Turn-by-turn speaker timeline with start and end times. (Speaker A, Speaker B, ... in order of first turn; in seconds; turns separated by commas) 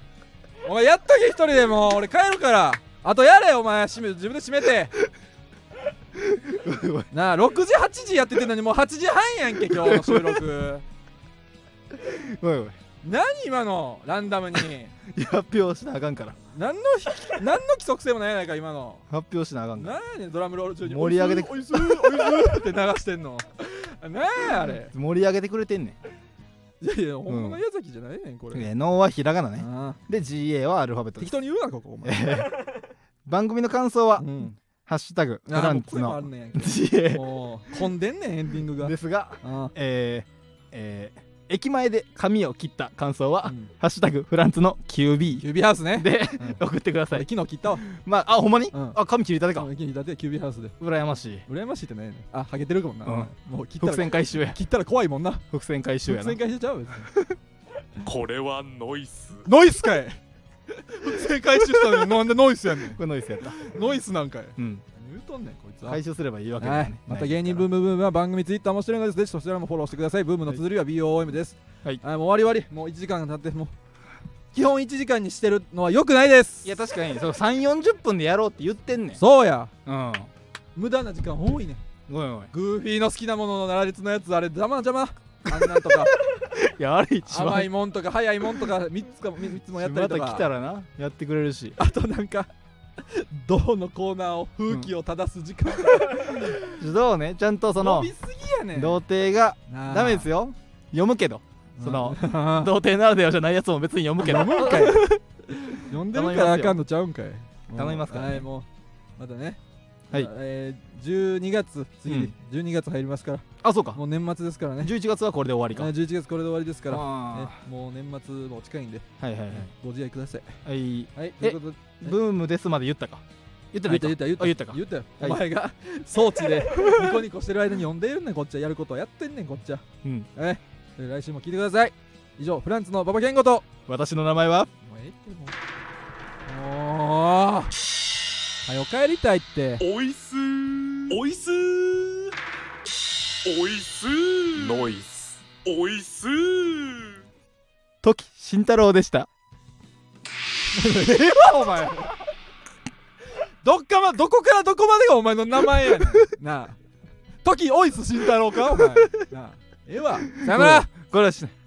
Speaker A: 0.6-4.9, Speaker B: 6.3-7.1, Speaker A: 7.1-10.8, Speaker B: 9.7-10.4, Speaker B: 12.0-12.7, Speaker A: 13.0-14.9, Speaker B: 15.1-16.4, Speaker A: 16.5-19.0, Speaker B: 19.1-20.0, Speaker A: 19.8-24.9, Speaker B: 20.8-22.4, Speaker B: 24.9-26.0, Speaker A: 26.8-28.7, Speaker B: 27.3-27.6, Speaker B: 28.5-31.3, Speaker A: 29.6-30.0, Speaker A: 31.2-32.4, Speaker B: 32.0-32.6, Speaker B: 33.2-37.2, Speaker A: 34.2-34.5, Speaker A: 35.5-39.7, Speaker B: 38.8-47.2, Speaker A: 43.4-43.7, Speaker A: 45.4-47.8, Speaker B: 47.8-49.7, Speaker A: 48.7-49.0, Speaker A: 49.5-50.8, Speaker B: 50.8-51.4, Speaker A: 51.5-55.4, Speaker B: 53.0-54.6, Speaker B: 55.5-56.4, Speaker A: 56.0-57.1, Speaker C: 58.0-59.5, Speaker A: 59.4-63.0, Speaker B: 63.0-63.7, Speaker A: 63.5-66.0, Speaker B: 64.6-64.8, Speaker B: 65.8-67.7, Speaker A: 66.6-73.7, Speaker A: 74.5-76.7, Speaker B: 76.6-79.2, Speaker A: 79.2-79.7, Speaker B: 79.8-80.3, Speaker A: 80.7-81.8, Speaker B: 82.1-82.5, Speaker A: 82.5-86.2, Speaker B: 85.5-87.7, Speaker A: 87.2-90.5, Speaker B: 89.7-91.8, Speaker A: 91.8-96.8, Speaker B: 96.7-98.1, Speaker A: 97.8-99.0, Speaker B: 98.7-105.1, Speaker A: 99.7-100.3, Speaker A: 101.8-102.7, Speaker A: 104.2-109.6, Speaker B: 106.1-106.8, Speaker B: 107.7-108.5, Speaker A: 110.1-114.9, Speaker B: 112.1-112.3, Speaker B: 113.6-114.0, Speaker B: 114.8-115.9, Speaker A: 115.7-120.6, Speaker B: 116.9-117.6, Speaker B: 119.2-119.7, Speaker B: 120.6-125.4, Speaker A: 121.2-122.2, Speaker A: 123.9-129.8, Speaker B: 126.8-127.1, Speaker A: 130.3-133.7, Speaker B: 133.9-134.7, Speaker A: 134.8-135.6, Speaker A: 136.4-137.7, Speaker A: 138.7-139.8, Speaker C: 139.8-142.3, Speaker C: 143.4-147.2, Speaker A: 144.6-145.0, Speaker B: 148.0-149.3, Speaker A: 150.7-152.2, Speaker A: 153.6-156.8, Speaker A: 157.4-160.9, Speaker B: 160.4-161.5